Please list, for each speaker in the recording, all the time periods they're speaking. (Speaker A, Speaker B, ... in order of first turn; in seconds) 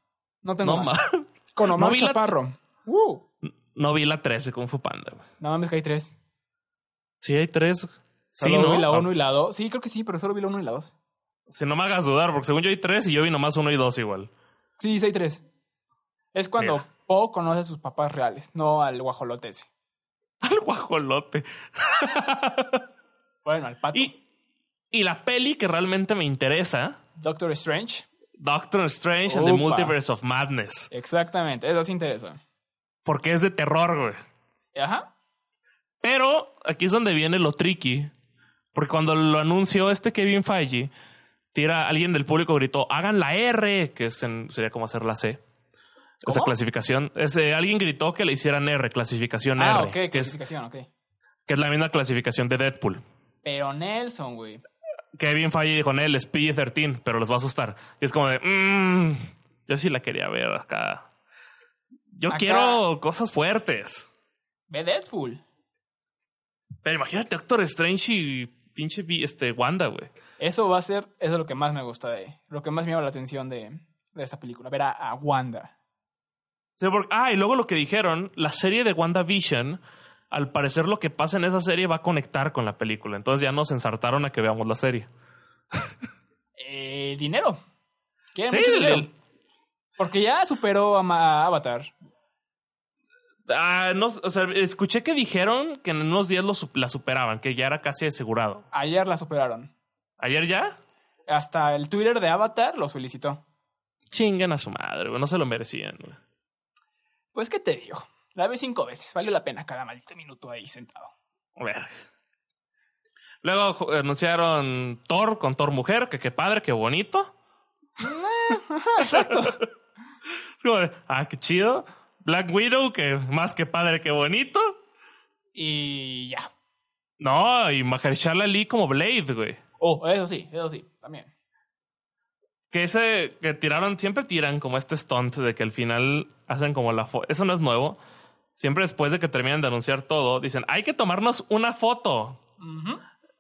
Speaker A: 0.4-1.0, 1.6-3.2, 5.4-6.1, 8.4-10.9, 14.8-15.4, 16.3-19.7, 23.4-24.1, 27.2-28.1, 29.3-29.9, 30.9-32.4, 34.8-35.1, 46.2-46.5, 49.6-50.9, 53.4-54.6, 62.3-62.8, 64.7-65.4, 70.4-75.7, 86.6-87.6, 88.3-89.1, 90.0-91.9, 98.7-99.7, 101.3-103.4, 107.3-111.1, 118.0-119.6, 125.5-126.5, 129.8-131.3, 142.6-143.0
Speaker B: 0.6-2.3, 3.7-5.2, 7.2-9.1, 11.5-14.3, 20.4-22.8, 24.9-27.0, 28.4-30.9, 33.0-34.2, 36.0-38.1, 38.7-40.9, 41.5-45.4, 46.2-50.4, 51.5-53.0, 55.1-61.0, 62.1-64.1, 66.8-70.1, 76.8-79.8, 80.3-85.1, 88.5-89.1, 93.5-98.7, 100.2-100.8, 104.1-106.2, 111.6-111.9, 113.4-117.3, 119.0-119.6, 120.6-124.7, 127.2-129.6, 132.7-138.0, 138.6-142.4